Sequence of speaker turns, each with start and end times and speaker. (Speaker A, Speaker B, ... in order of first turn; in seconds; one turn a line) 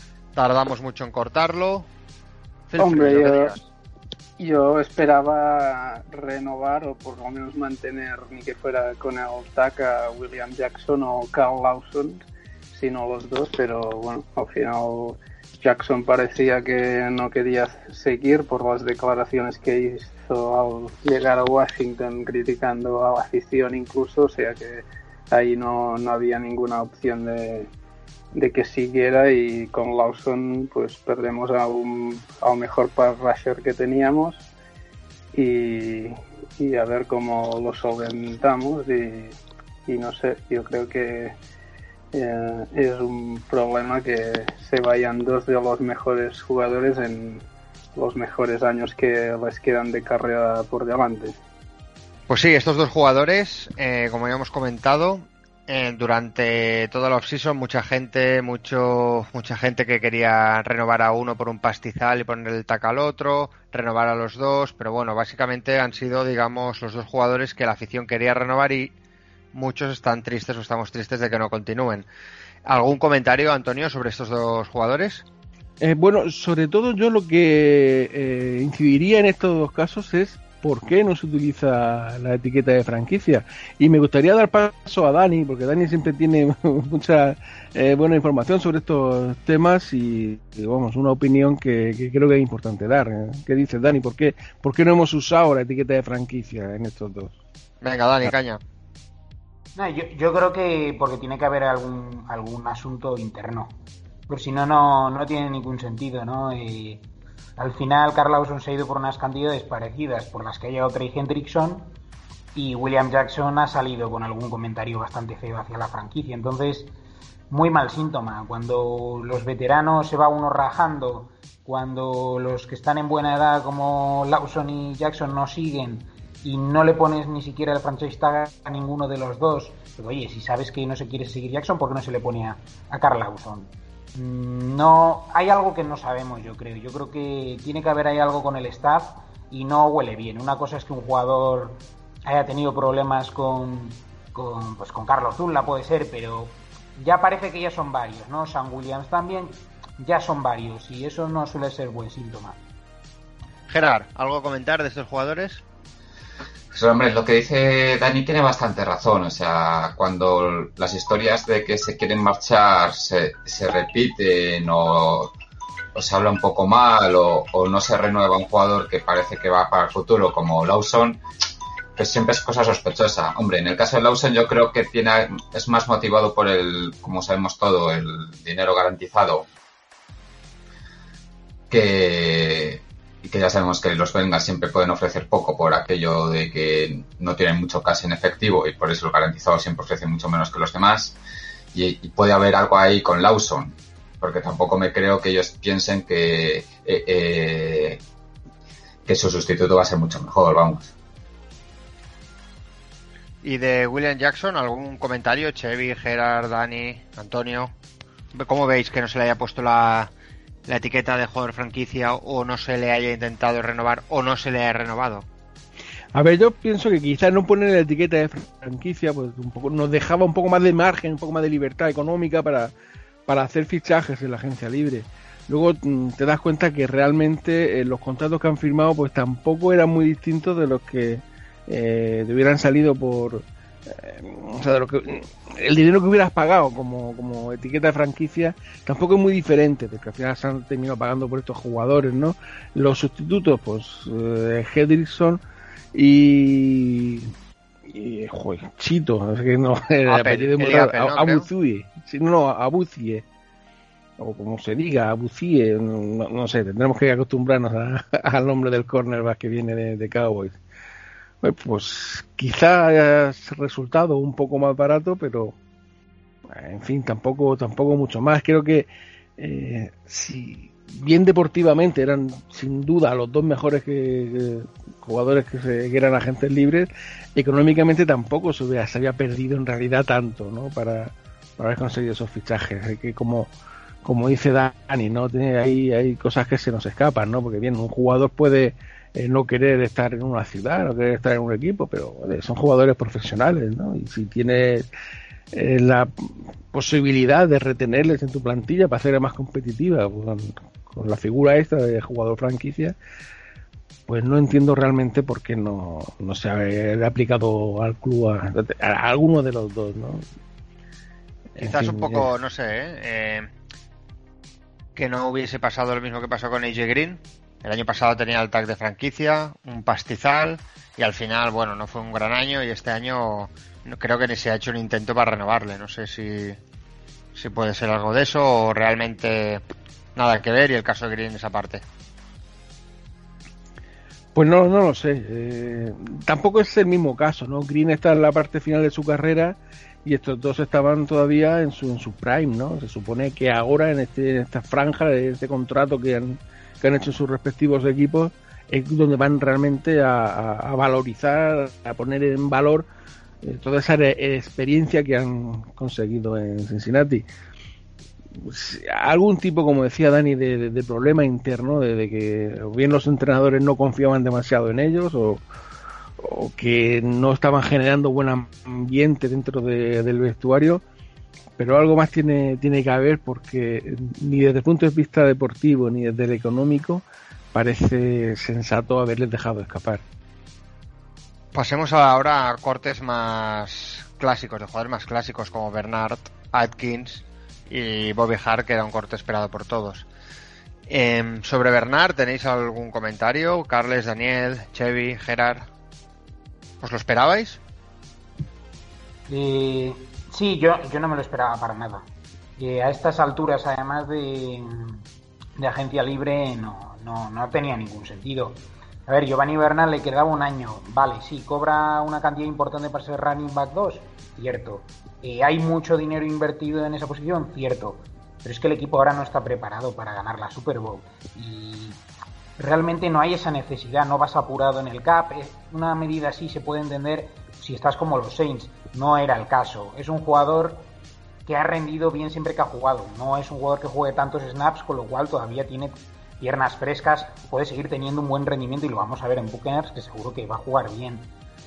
Speaker A: 0.3-1.9
Speaker A: 2.7-3.6
Speaker B: 2.8-3.5
Speaker B: 4.4-27.7
Speaker B: 28.3-34.5
Speaker B: 35.3-41.4
Speaker B: 42.1-47.4
Speaker B: 48.0-51.4
Speaker A: 52.3-68.9
Speaker A: 69.5-72.1
Speaker A: 72.7-75.2
Speaker C: 75.8-97.3
Speaker A: 97.8-98.6
Speaker D: 99.8-103.8
Speaker D: 104.3-107.0
Speaker D: 107.6-111.9
Speaker D: 112.5-116.9
Speaker D: 117.5-152.6
Speaker A: 153.7-155.6
Speaker E: 156.7-165.3
Speaker E: 165.9-171.2
Speaker E: 172.0-179.5
Speaker E: 181.7-191.2
Speaker E: 191.7-198.0
Speaker E: 199.1-200.9
Speaker A: 203.4-207.7
Speaker A: 208.3-210.1
Speaker A: 210.7-215.3
Speaker C: 216.1-222.7
Speaker C: 223.3-245.4
Speaker C: 245.9-247.3
Speaker C: 247.9-253.2
Speaker A: 250.1-251.5
Speaker C: 254.2-260.6
Speaker C: 261.4-265.6
Speaker C: 266.5-283.5
Speaker C: 284.0-294.9
Speaker C: 295.5-303.0
Speaker C: 304.1-310.2
Speaker C: 311.6-312.3
Speaker A: 311.6-313.5
Speaker A: 315.0-326.6
Speaker A: 327.4-329.6
Speaker A: 330.2-331.8
Speaker C: 334.4-352.9
Speaker C: 353.4-357.2
Speaker C: 358.4-365.4
Speaker C: 366.2-370.8
Speaker C: 371.6-380.0
Speaker A: 381.5-390.1
Speaker A: 390.9-395.6
Speaker A: 396.8-397.6
Speaker D: 399.3-402.1
Speaker D: 402.6-405.0
Speaker D: 405.6-422.0
Speaker D: 422.6-430.9
Speaker D: 431.5-441.3